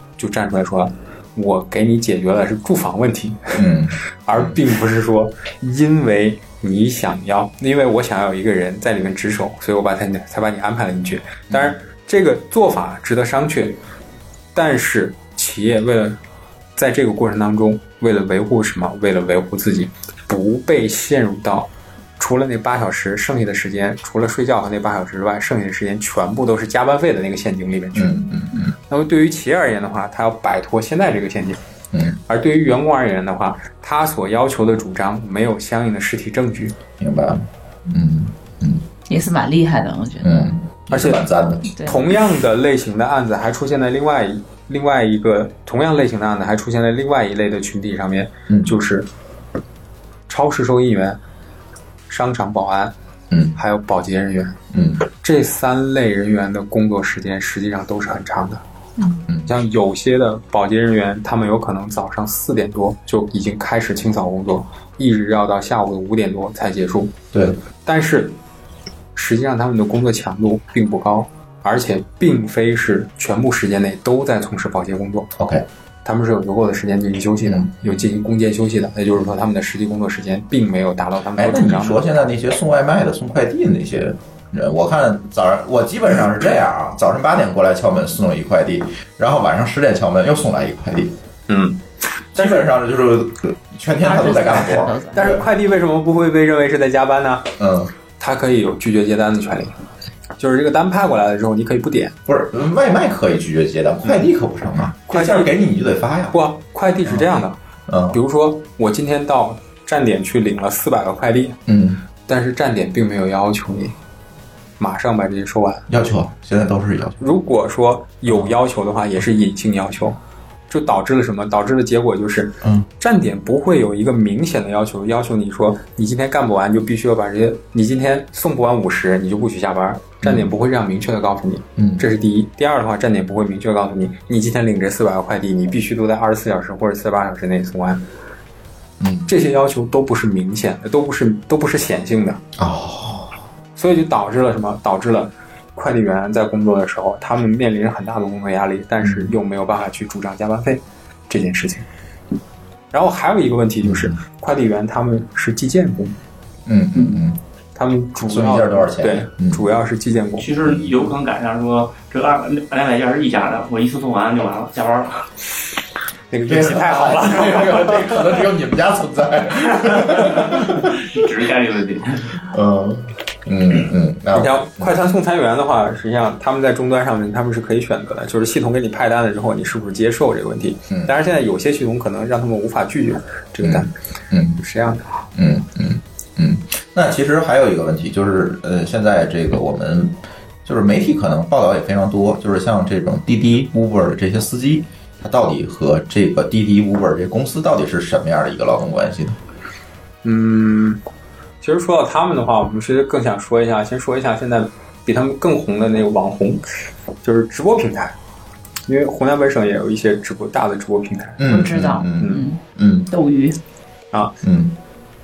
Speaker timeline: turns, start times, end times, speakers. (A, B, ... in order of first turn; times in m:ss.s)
0:00.2-0:03.6 A
0:03.5-0:04.5 B
0:04.2-0:13.8 A
0:14.5-0:16.2 A
0:16.8-0:28.2 A
0:27.9-0:28.7 B
0:28.9-0:31.6 A
0:31.9-0:32.2 B
0:32.3-0:36.8 A
0:37.0-0:38.8 B
0:39.1-0:40.5 C
0:40.2-0:41.7 B
0:40.9-0:41.2 A
0:41.8-0:42.0 C
0:41.8-0:49.1 A
0:48.5-0:48.7 B
0:50.3-0:51.2 A
0:52.1-0:52.9 A
0:53.3-0:53.6 B
0:53.5-0:58.6 A
0:54.7-0:55.0 B
0:59.4-1:07.1 A
1:07.3-1:07.6 B
1:07.8-1:08.4 A
1:09.1-1:15.3 A
1:15.4-1:15.6 B
1:16.0-1:22.2 A
1:17.4-1:18.0 B
1:21.4-1:31.1 B
1:31.5-1:31.8 A
1:32.3-1:32.7 A
1:32.3-1:35.4 B
1:34.0-1:35.3 C
1:35.1-1:37.5 A
1:37.6-1:37.9 B
1:38.2-1:39.7 A
1:40.4-1:42.2 A
1:42.2-1:46.4 B
1:45.1-1:45.5 A
1:46.3-1:47.6 A
1:47.0-1:47.3 B
1:47.9-1:48.2 B
1:48.1-1:51.6 A
1:51.7-1:52.0 B
1:52.2-1:53.9 A
1:54.8-1:55.9 A
1:55.9-1:57.3 B
1:57.2-2:00.2 A
2:00.7-2:18.0 A
2:10.2-2:10.5 B
2:11.8-2:12.0 B
2:19.0-2:19.3 B
2:19.3-2:22.4 A
2:22.6-2:23.3 B
2:23.8-2:31.9 A
2:29.0-2:29.3 B
2:32.9-2:36.2 A
2:33.8-2:34.2 B
2:36.6-2:37.4 B
2:37.7-2:40.5 A
2:38.2-2:39.6 B
2:40.4-2:45.3 D
2:46.3-2:48.2 A
2:46.5-2:51.2 B
2:51.0-2:52.3 D
2:52.4-2:54.9 B
2:54.3-3:03.9 A
3:03.6-3:04.6 B
3:04.6-3:05.0 A
3:05.3-3:19.4 B
3:20.2-3:21.0 A
3:21.6-3:26.6 A
3:27.2-3:28.1 A
3:28.9-3:31.4 A
3:31.4-3:33.1 B
3:31.4-3:33.6 C
3:34.4-3:34.7 B